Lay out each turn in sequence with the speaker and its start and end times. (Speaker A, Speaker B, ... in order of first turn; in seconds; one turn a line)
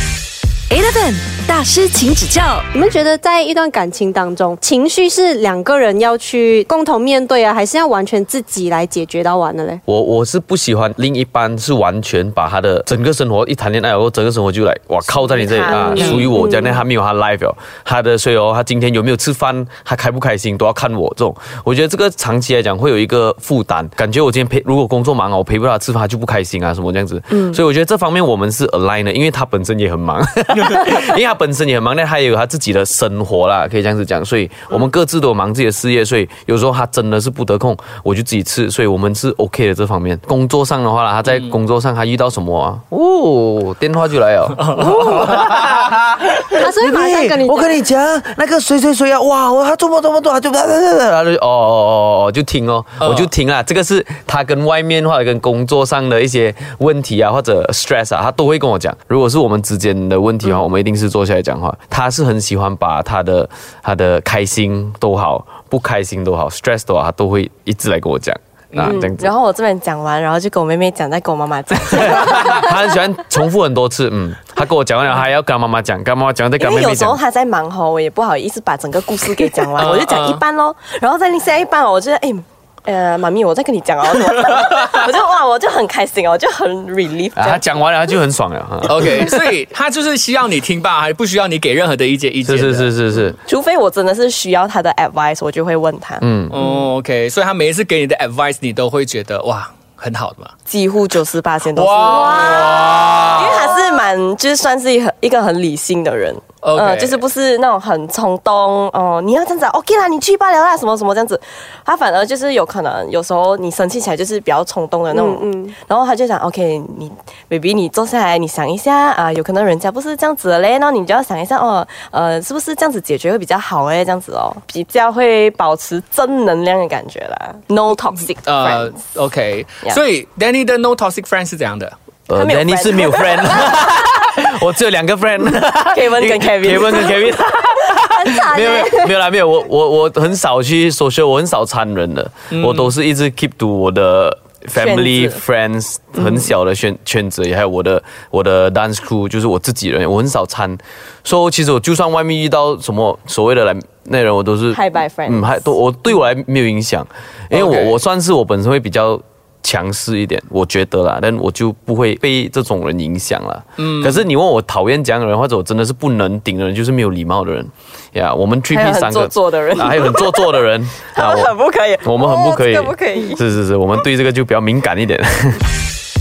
Speaker A: 0.7-2.6
Speaker B: 2.7-9.8
Speaker C: 9.9-69.3
Speaker D: 15.1-16.2
Speaker B: 15.9-16.8
Speaker D: 27.3-27.6
Speaker B: 46.5-47.8
Speaker E: 53.0-53.3
Speaker E: 68.7-69.0
Speaker D: 68.8-72.7
Speaker C: 71.7-77.2
Speaker D: 76.6-87.6
Speaker E: 79.7-80.4
Speaker C: 87.3-89.4
Speaker E: 88.8-92.9
Speaker C: 92.4-93.4
Speaker D: 93.4-96.3
Speaker C: 96.2-96.6
Speaker E: 96.5-100.5
Speaker D: 100.7-128.9
Speaker E: 101.7-103.7
Speaker B: 102.1-102.6
Speaker E: 106.6-107.2
Speaker B: 115.1-115.8
Speaker E: 128.2-131.9
Speaker C: 132.3-171.5
Speaker D: 132.3-133.8
Speaker D: 135.9-137.3
Speaker B: 138.1-139.1
Speaker E: 142.5-142.9
Speaker D: 144.8-145.4
Speaker D: 154.7-155.6
Speaker E: 157.5-158.0
Speaker E: 163.8-164.2
Speaker D: 168.7-173.4
Speaker C: 172.0-175.6